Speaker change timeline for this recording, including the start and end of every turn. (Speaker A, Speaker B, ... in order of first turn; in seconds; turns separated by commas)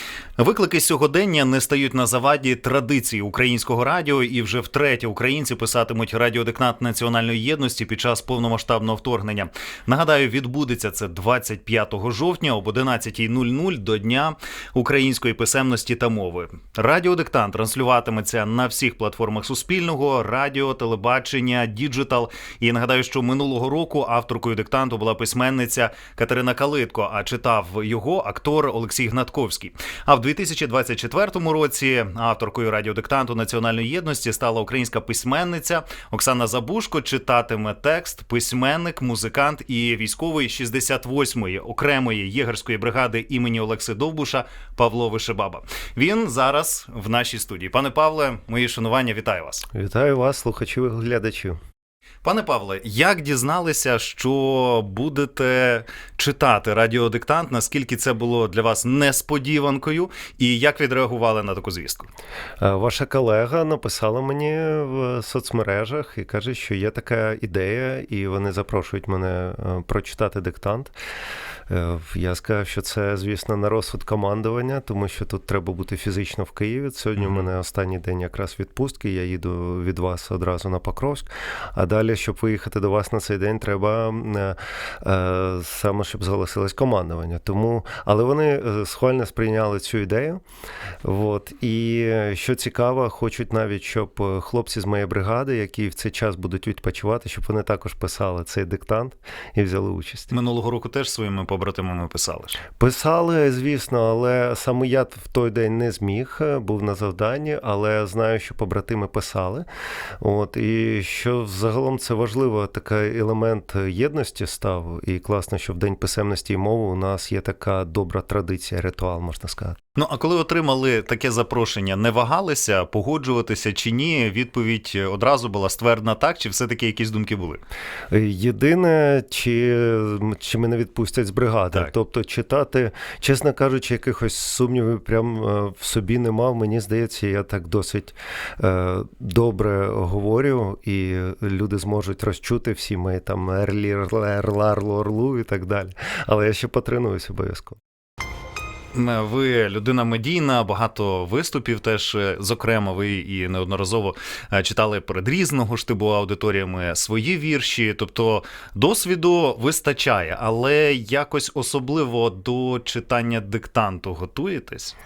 Speaker A: 0.4-49.6, Speaker B: 49.7-51.6, Speaker A: 52.2-62.1, Speaker B: 62.6-70.9, Speaker B: 71.7-90.4, Speaker A: 77.2-77.5, Speaker B: 91.0-100.3, Speaker A: 100.3-102.6, Speaker B: 102.8-109.7, Speaker B: 110.2-119.8, Speaker A: 120.0-127.6, Speaker B: 128.1-147.8, Speaker A: 148.9-164.9